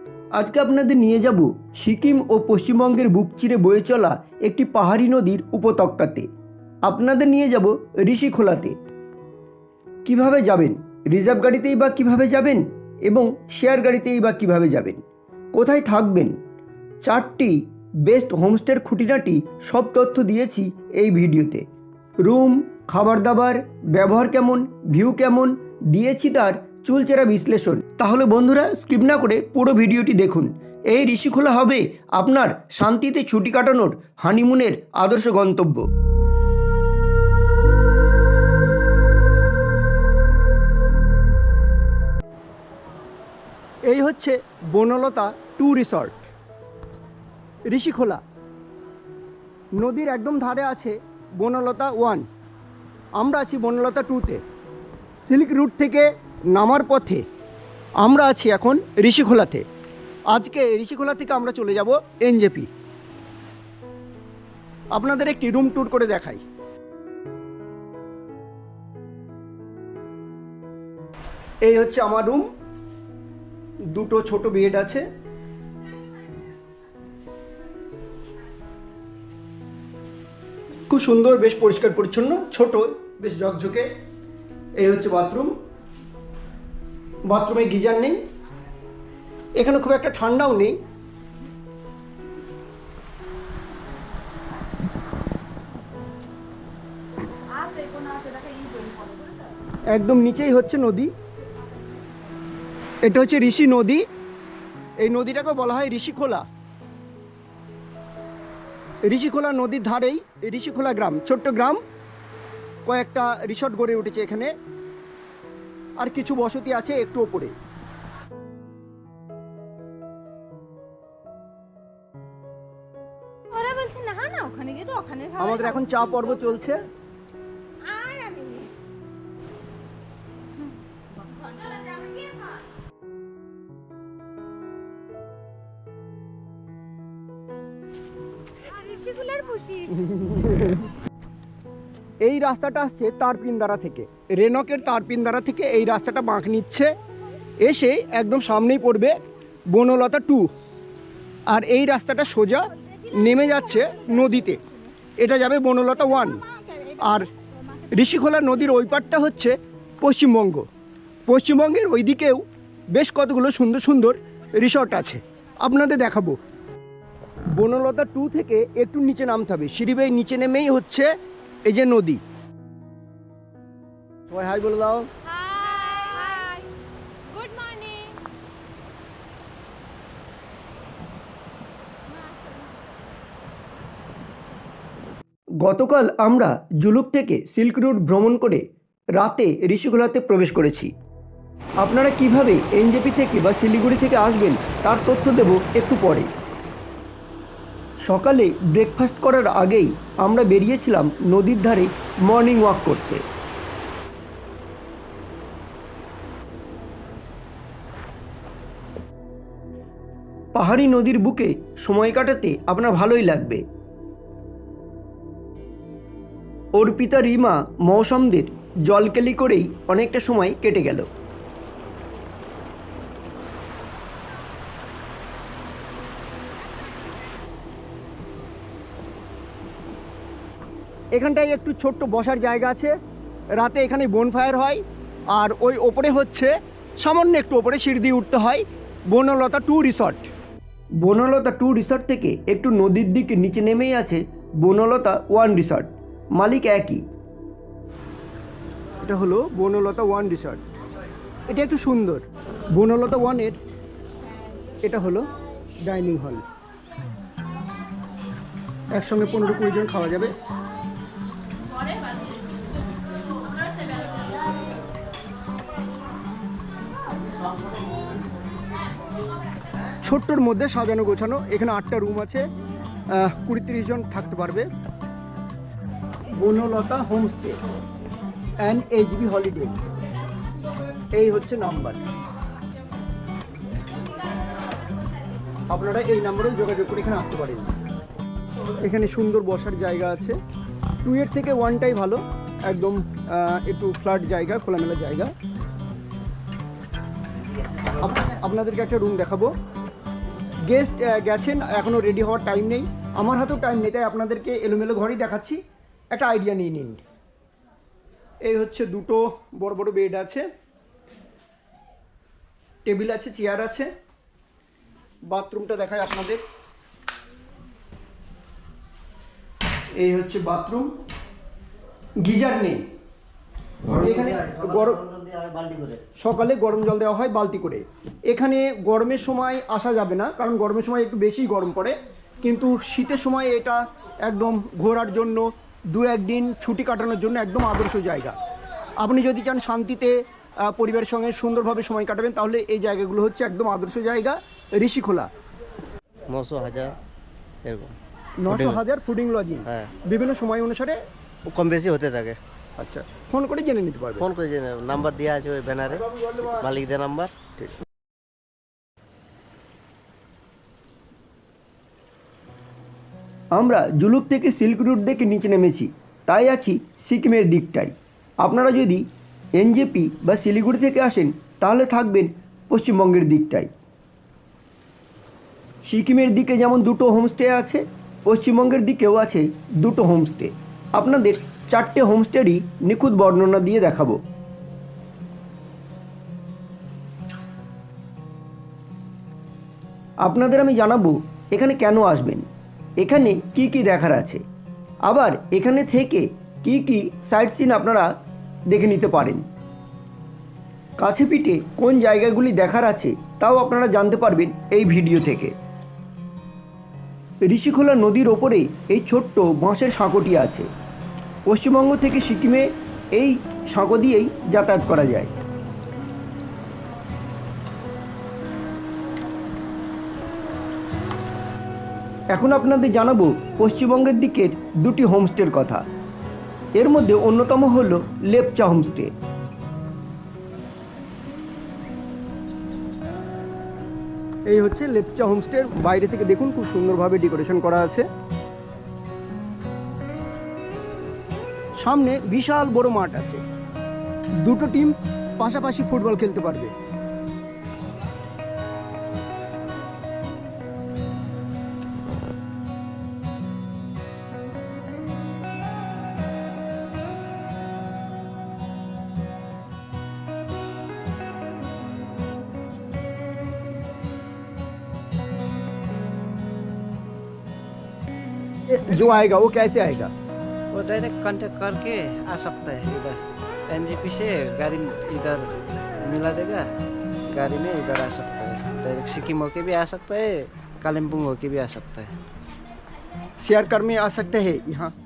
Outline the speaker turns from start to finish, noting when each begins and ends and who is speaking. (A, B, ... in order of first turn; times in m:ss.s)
0:00.4-0:06.3 A
0:06.8-0:08.8 A
0:10.0-0:15.0 A
0:15.5-0:16.4 A
0:17.0-0:21.6 A
0:22.2-0:35.9 A
0:43.9-0:46.3 A
0:47.7-0:48.2 A
0:49.8-0:52.3 A
0:53.2-0:54.4 A
0:55.2-0:57.2 A
0:58.0-0:59.6 A
1:00.3-1:02.7 A
1:04.9-1:06.4 A
1:11.6-1:12.5 A
1:13.9-1:15.0 A
1:20.9-1:23.9 A
1:24.8-1:25.5 A
1:27.3-1:28.2 A
1:29.6-1:30.8 A
1:37.5-1:39.5 B
1:39.9-1:41.1 A
1:43.0-1:44.0 A
1:45.0-1:46.5 A
1:49.0-1:51.8 A
1:52.8-1:54.5 A
1:56.0-1:57.5 A
2:03.5-2:06.7 B
2:05.4-2:06.9 A
2:07.8-2:08.7 B
2:11.2-2:12.5 B
2:18.6-2:20.0 B
2:19.9-2:20.9 A
2:22.2-2:26.9 A
2:27.6-2:29.2 A
2:29.7-2:30.5 A
2:31.5-2:34.6 A
2:35.2-2:36.4 A
2:37.0-2:37.3 A
2:37.9-2:40.7 A
2:41.3-2:46.4 A
2:47.5-2:51.1 A
2:51.6-2:52.2 A
2:54.3-2:55.1 A
2:55.3-2:56.7 B
2:57.3-2:58.2 B
3:02.1-3:02.7 B
3:05.6-3:10.9 A
3:11.8-3:16.3 A
3:18.1-3:23.2 A
3:30.6-3:33.6 A
3:36.8-3:41.1 A
3:51.1-3:52.9 A
3:53.6-4:00.3 A
4:01.0-4:07.0 A
4:09.0-4:10.6 A
4:11.5-4:13.6 A
4:14.8-4:15.3 A
4:15.8-4:16.4 A
4:18.9-4:20.3 A
4:23.9-4:24.2 B
4:30.0-4:32.5 A
4:33.1-4:34.7 A
4:36.4-4:37.6 A
4:38.6-4:39.9 A
4:41.1-4:42.0 A
4:45.7-4:47.8 A
4:48.8-4:50.4 A
4:51.0-4:55.3 A
4:58.0-4:59.5 A
5:00.7-5:05.6 A
5:06.1-5:07.0 A
5:08.4-5:10.5 A
5:12.9-5:13.9 A
5:15.2-5:16.4 A
5:20.0-5:20.9 A
5:22.2-5:22.8 A
5:23.9-5:26.0 C
5:23.9-5:25.0 A
5:26.2-5:38.4 A
5:39.0-5:45.3 A
5:46.3-5:47.0 C
5:47.6-5:48.0 C
5:48.4-5:51.0 A
5:48.5-5:48.8 C
5:51.5-5:52.4 C
5:52.8-5:54.3 A
5:54.2-5:57.3 C
5:55.9-5:56.7 A
6:03.5-6:09.0 A
6:09.6-6:13.7 A
6:15.8-6:24.2 A
6:30.2-6:32.5 A
6:33.0-6:34.4 A
6:35.1-6:38.1 A
6:38.7-6:39.4 A
6:41.0-6:45.5 A
6:47.4-6:50.7 A
6:51.5-6:55.3 A
7:02.3-7:05.8 A
7:06.8-7:09.1 A
7:14.5-7:18.1 A
7:21.8-7:23.4 A
7:24.4-7:26.7 A
7:48.7-7:50.1 A
7:50.7-7:56.7 D
7:57.3-8:02.2 D
8:03.4-8:04.9 A